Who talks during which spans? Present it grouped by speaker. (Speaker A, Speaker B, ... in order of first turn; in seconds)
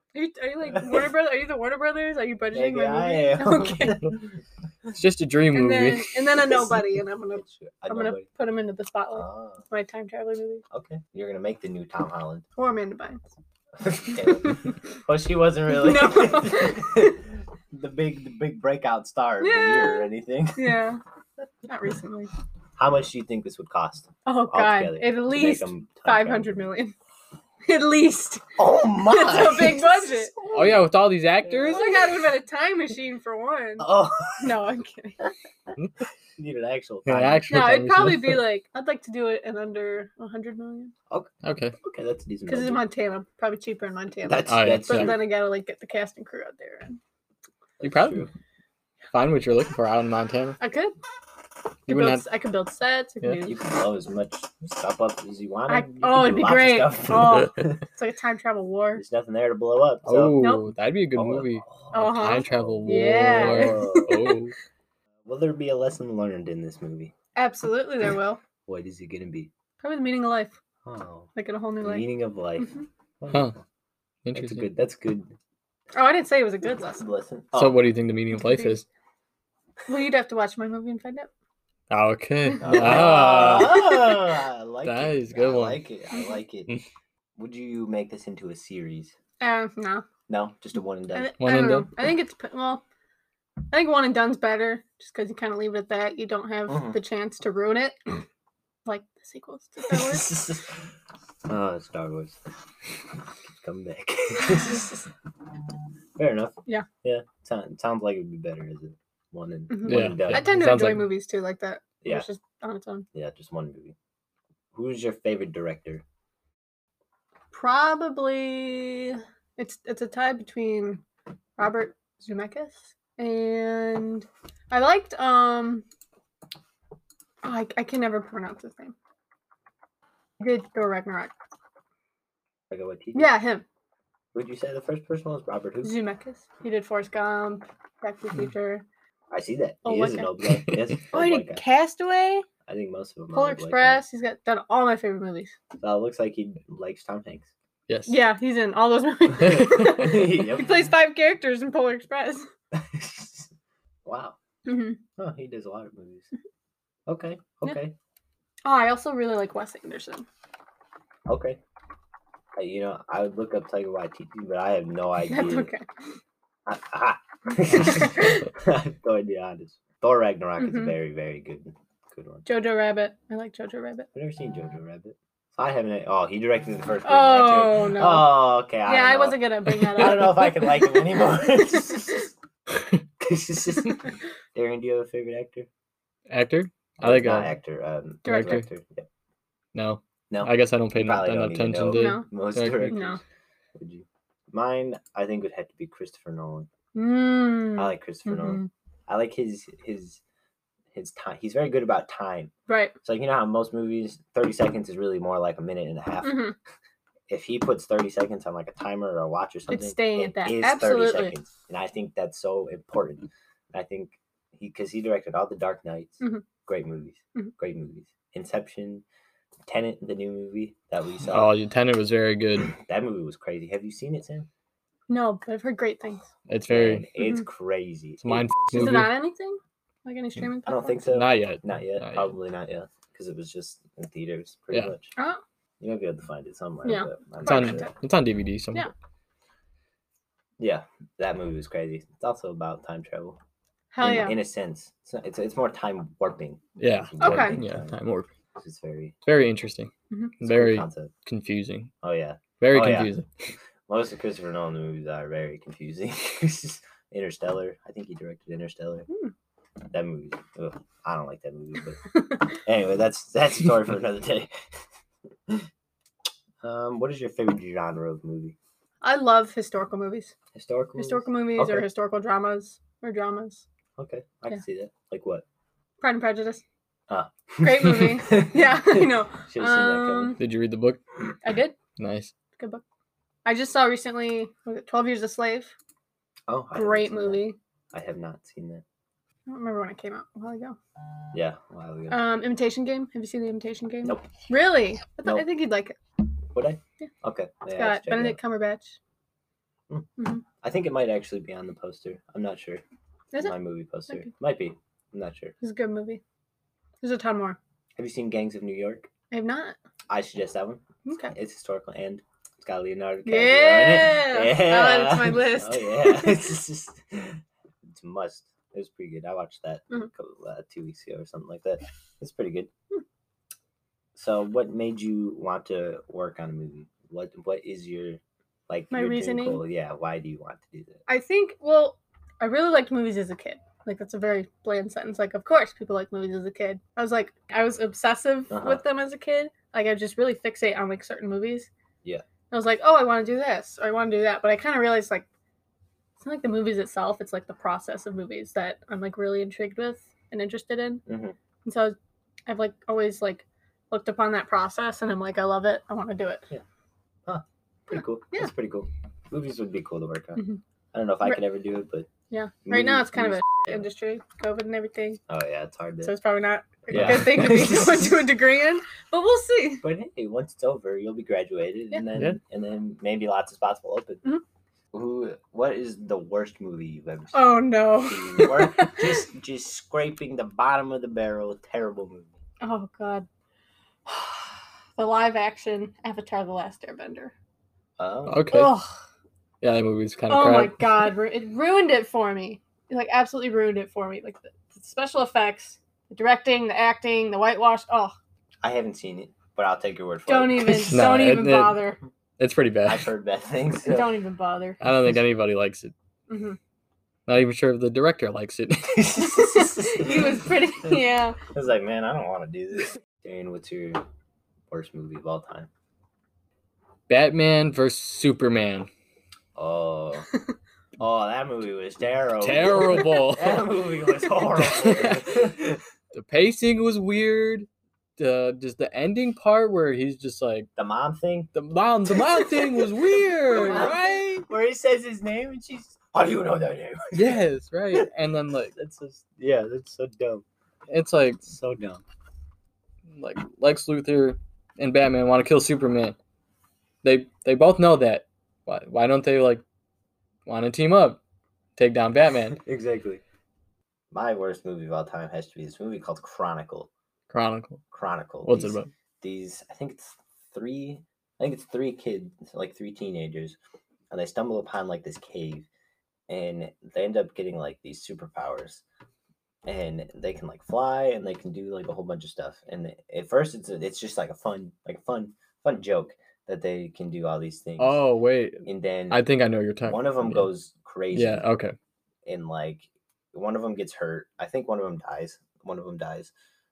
Speaker A: 0.1-4.1, 5.5-10.6, 12.6-13.3, 15.7-17.2, 19.4-21.0, 21.7-22.3, 24.3-26.9, 27.6-30.4, 31.7-35.2, 37.5-40.9, 42.5-47.0, 50.6-50.9, 51.9-53.6, 55.7-59.0, 60.4-60.7, 61.9-64.4, 67.3-68.4, 69.8-70.6, 71.4-72.1, 76.0-77.0, 78.4-78.8, 79.9-81.3, 82.6-84.2, 89.4-90.0, 91.1-92.8, 93.7-98.0, 98.9-100.3, 109.7-113.1, 117.5-121.0, 121.6-125.8, 127.4-128.9, 130.4-131.3, 133.2-133.6, 135.8-138.8, 139.8-140.3, 141.1-142.5, 143.3-145.6, 148.1-152.5, 154.7-155.0, 158.7-160.3, 165.3-165.9, 170.6-170.9, 172.5-174.1, 177.1-181.6, 188.2-188.6, 191.9-192.3, 192.9-193.2, 196.9-198.7, 202.7-202.9, 206.2-206.6, 209.7-211.3, 225.1-226.3, 228.7-231.0, 236.8-237.9, 243.9-244.4, 247.2-247.6, 262.1-262.4, 269.0-270.3, 271.0-273.6, 276.0-276.6, 277.6-280.4, 281.4-281.8, 282.6-282.8, 283.4-285.7, 286.8-287.6, 289.5-290.8, 292.1-296.0, 297.7-299.0, 300.2-300.4, 305.6-306.2, 307.0-307.6, 309.3-309.8, 311.1-311.3, 313.3-316.4, 328.9-329.6, 331.1-341.7, 342.5-345.2, 346.2-351.0, 351.6-351.9, 352.5-356.4, 358.0-358.5, 362.3-365.2, 366.0-369.8, 377.3-379.2, 382.6-383.3, 384.1-387.3, 388.5-388.9, 390.3-398.1, 400.3-402.0, 403.9-404.8, 406.3-406.6, 409.4-411.4
Speaker B: 0.7-1.0, 2.5-4.2, 6.4-6.8, 7.3-8.3, 9.1-9.6, 10.7-12.4, 13.8-20.8, 22.8-26.6, 28.6-30.9, 31.4-32.0, 33.8-34.5, 36.4-37.6, 41.8-42.8, 44.3-45.3, 47.8-48.3, 53.4-57.8, 59.0-60.5, 61.1-64.2, 65.3-67.1, 68.7-69.5, 70.8-71.3, 71.8-73.6, 74.3-75.3, 77.0-77.8, 82.6-86.7, 87.4-89.1, 90.3-91.3, 96.7-97.0, 99.9-100.7, 101.5-102.4, 103.5-105.0, 106.2-110.6, 112.0-112.3, 113.1-114.0, 114.7-116.0, 132.7-133.3, 134.3-136.0, 139.3-141.6, 142.7-144.0, 145.8-147.5, 149.4-150.9, 152.7-153.5, 154.1-154.4, 155.2-156.3, 157.1-157.9, 161.3-161.6, 162.6-165.7, 166.7-172.4, 174.1-182.3, 183.2-185.7, 187.0-189.1, 190.3-193.2, 193.8-196.7, 197.8-200.2, 200.9-202.5, 203.0-206.5, 207.3-219.0, 219.7-221.5, 222.7-224.5, 226.7-229.0, 230.7-235.1, 235.8-237.9, 240.6-243.4, 244.0-248.0, 248.6-249.2, 250.4-251.1, 252.0-253.1, 253.9-259.1, 259.9-264.6, 266.6-268.6, 270.5-271.9, 274.0-275.4, 277.1-280.4, 286.5-288.8, 291.3-292.2, 296.5-298.4, 299.9-302.8, 303.4-305.5, 308.0-309.1, 310.1-322.7, 324.1-331.0, 338.5-338.8, 351.1-351.4, 357.3-362.1, 362.7-363.9, 365.3-366.1, 366.9-368.2, 369.8-374.2, 374.9-382.4, 388.0-388.4, 398.6-401.0, 402.9-404.1, 408.9-411.0, 411.5-414.0, 414.7-415.7, 419.6-420.3, 421.0-425.8, 430.8-431.5, 432.1-433.0, 433.5-438.1, 438.7-440.4, 441.5-442.0, 452.6-453.2, 454.1-456.9, 457.9-463.6, 464.1-465.7, 466.3-468.8, 469.7-478.0, 478.6-479.2, 479.9-481.5, 482.3-486.3
Speaker C: 4.9-6.2, 30.5-31.9, 37.1-38.4, 41.4-41.8, 44.5-45.2, 47.8-48.3, 49.1-50.6, 51.9-52.2, 60.0-64.5, 74.2-74.7, 77.5-78.8, 81.9-83.9, 84.8-85.8, 91.4-91.9, 109.9-111.1, 147.9-148.2, 186.3-187.5, 188.3-188.7, 189.7-193.0, 221.3-222.7, 226.5-227.1, 228.2-229.1, 231.1-232.3, 237.5-238.9, 246.8-248.3, 249.2-251.9, 252.6-253.3, 280.4-281.0, 282.0-282.3, 366.9-367.6, 388.3-388.7, 389.6-390.9, 400.9-401.9, 402.4-403.1, 404.8-405.9, 407.3-409.1, 417.1-418.9, 422.4-423.7, 424.6-425.4, 426.1-430.7, 431.5-434.5, 437.1-438.7, 440.9-441.5, 443.1-446.2, 447.0-449.6, 450.5-451.2, 451.8-452.6, 457.3-457.8, 458.4-458.9, 477.8-480.5, 481.1-481.8